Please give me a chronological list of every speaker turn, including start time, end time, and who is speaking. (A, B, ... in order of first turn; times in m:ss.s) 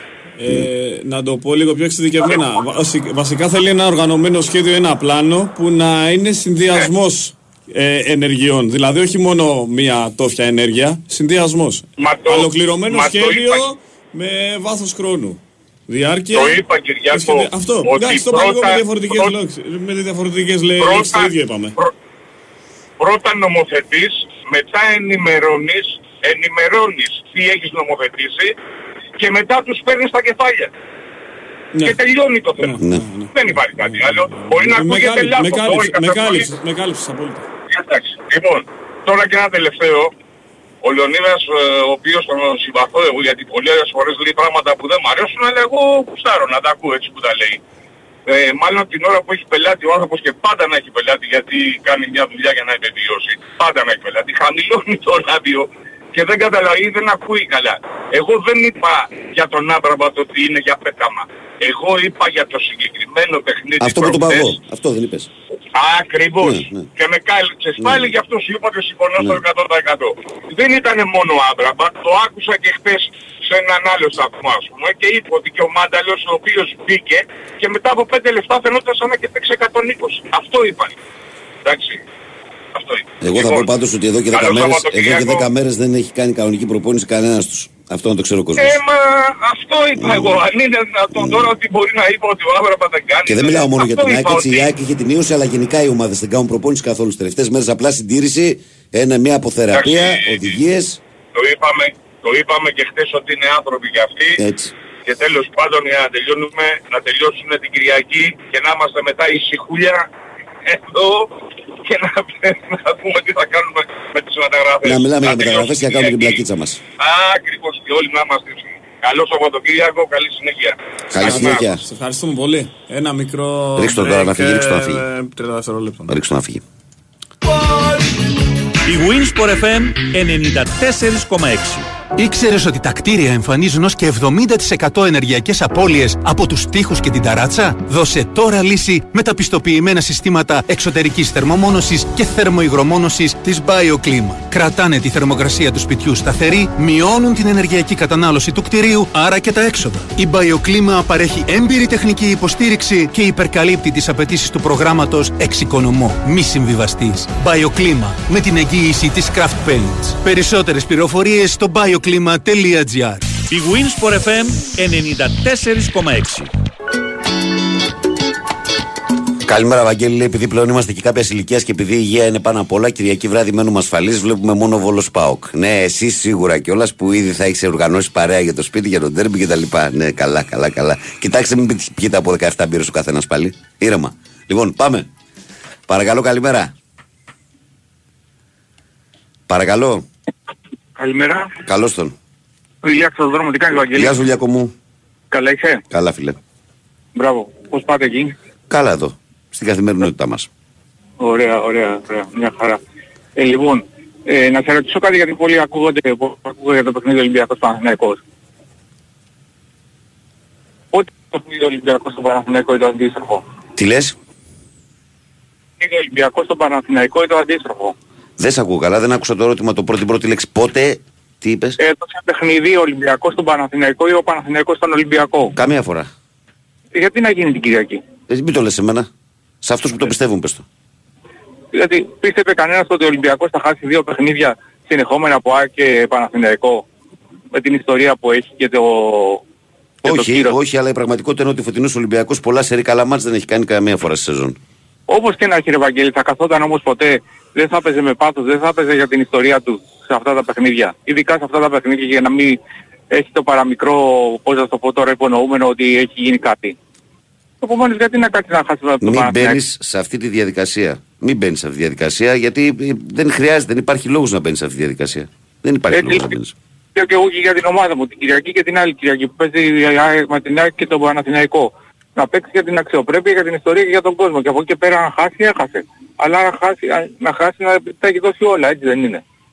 0:00.4-0:21.7 A
0:12.0-0:13.6 B
0:16.3-0:19.4 B
0:20.8-0:21.9 B
0:23.0-0:28.5 B
0:29.2-0:30.7 B
0:31.8-0:32.8 B
0:32.6-0:37.4 A
0:32.8-0:33.0 C
0:33.3-0:36.5 B
0:37.7-0:40.1 B
0:40.8-0:47.6 B
0:48.3-1:04.5 B
1:03.8-1:05.3 C
1:05.8-1:20.9 B
1:06.4-1:06.9 C
1:07.8-1:08.2 C
1:21.6-1:22.0 B
1:22.7-1:23.7 B
1:23.2-1:28.8 C
1:24.3-1:25.5 B
1:28.6-1:34.7 B
1:30.0-1:30.4 C
1:31.1-1:31.5 C
1:33.2-1:41.0 C
1:39.7-1:40.5 B
1:41.3-1:44.4 B
1:44.4-1:44.7 C
1:45.0-1:50.1 B
1:50.7-1:56.4 B
1:54.8-1:56.8 C
1:57.0-2:00.8 B
2:01.1-2:01.8 C
2:01.2-2:06.2 A
2:03.8-2:05.0 C
2:06.1-2:06.6 C
2:08.8-2:11.8 D
2:12.2-2:43.2 E
2:43.5-2:46.5 D
2:49.4-3:05.1 C
3:05.9-3:06.7 C
3:09.5-3:10.0 C
3:11.0-3:11.5 F
3:11.6-3:12.1 C
3:12.8-3:14.1 F
3:13.8-3:14.7 C
3:15.3-3:15.8 F
3:15.9-3:16.4 C
3:17.2-3:18.3 F
3:18.7-3:20.5 C
3:21.2-3:22.8 F
3:23.4-3:28.2 F
3:30.9-3:33.4 F
3:33.8-3:34.1 C
3:35.8-3:37.9 F
3:38.4-3:41.8 C
3:41.8-3:45.5 F
3:45.5-3:46.1 C
3:46.9-3:48.0 F
3:48.3-3:49.1 C
3:49.6-3:50.6 C
3:51.7-3:56.8 F
3:57.5-3:59.4 F
4:00.0-4:04.6 C
4:00.0-4:00.6 F
4:05.1-4:12.6 F
4:13.1-4:16.7 F
4:17.6-4:19.6 F
4:19.0-4:26.5 C
4:25.9-4:26.3 F
4:26.9-4:39.2 F